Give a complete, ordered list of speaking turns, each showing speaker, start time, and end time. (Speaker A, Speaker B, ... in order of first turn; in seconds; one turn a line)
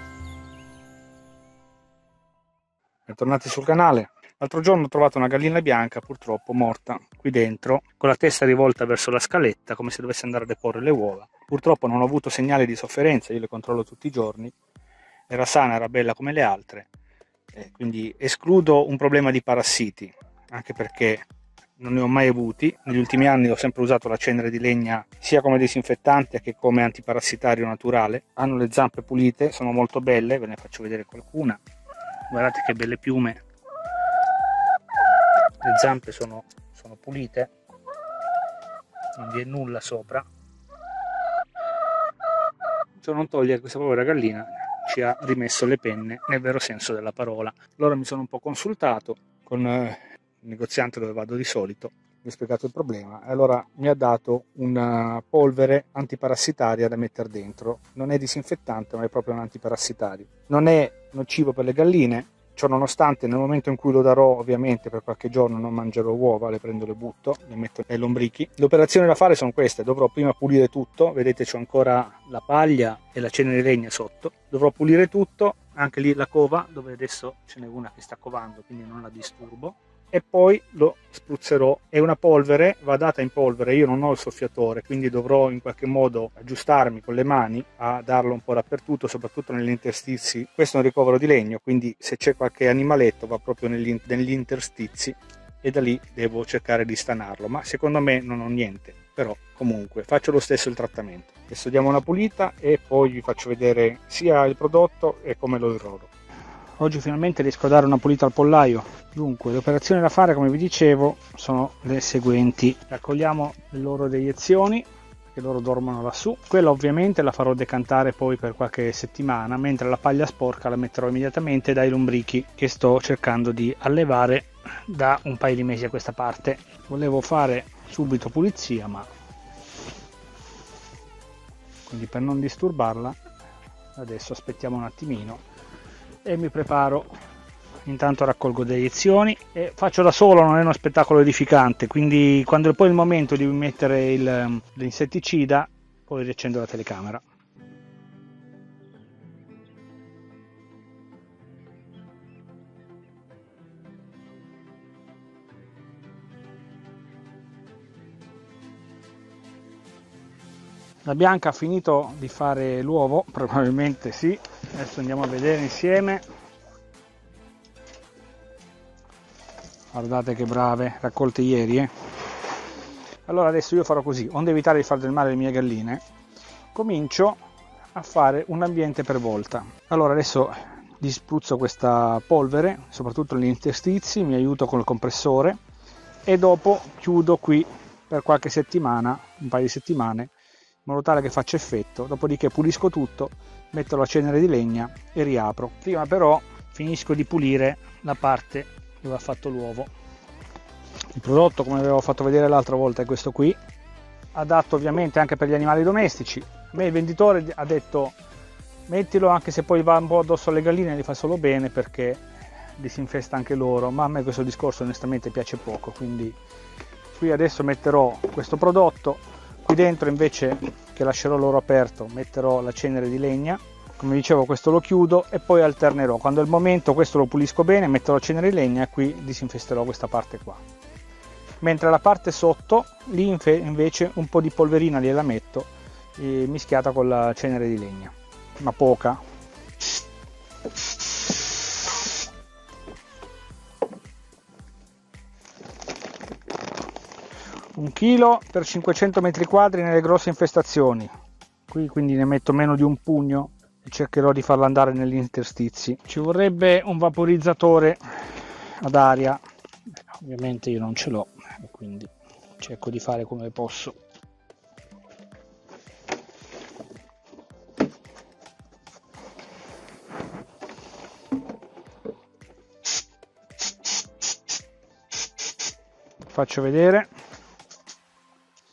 Speaker A: 3.1-14.5
Speaker A: 15.3-16.9
Speaker A: 17.5-21.3
Speaker A: 21.8-31.6
Speaker A: 32.3-33.4
Speaker A: 35.6-37.5
Speaker A: 39.2-40.3
Speaker A: 43.0-106.1
Speaker A: 106.8-129.1
Speaker A: 131.9-133.2
Speaker A: 134.0-135.4
Speaker A: 136.2-137.1
Speaker A: 137.8-147.2
Speaker A: 161.1-166.2
Speaker A: 169.9-171.9
Speaker A: 173.3-176.0
Speaker A: 176.7-177.4
Speaker A: 177.9-185.6
Speaker A: 186.2-190.3
Speaker A: 190.8-199.9
Speaker A: 201.1-203.6
Speaker A: 204.3-208.2
Speaker A: 208.9-212.2
Speaker A: 212.8-216.4
Speaker A: 217.2-230.6
Speaker A: 231.6-239.2
Speaker A: 247.8-251.1
Speaker A: 251.7-259.4
Speaker A: 260.1-264.0
Speaker A: 276.3-277.1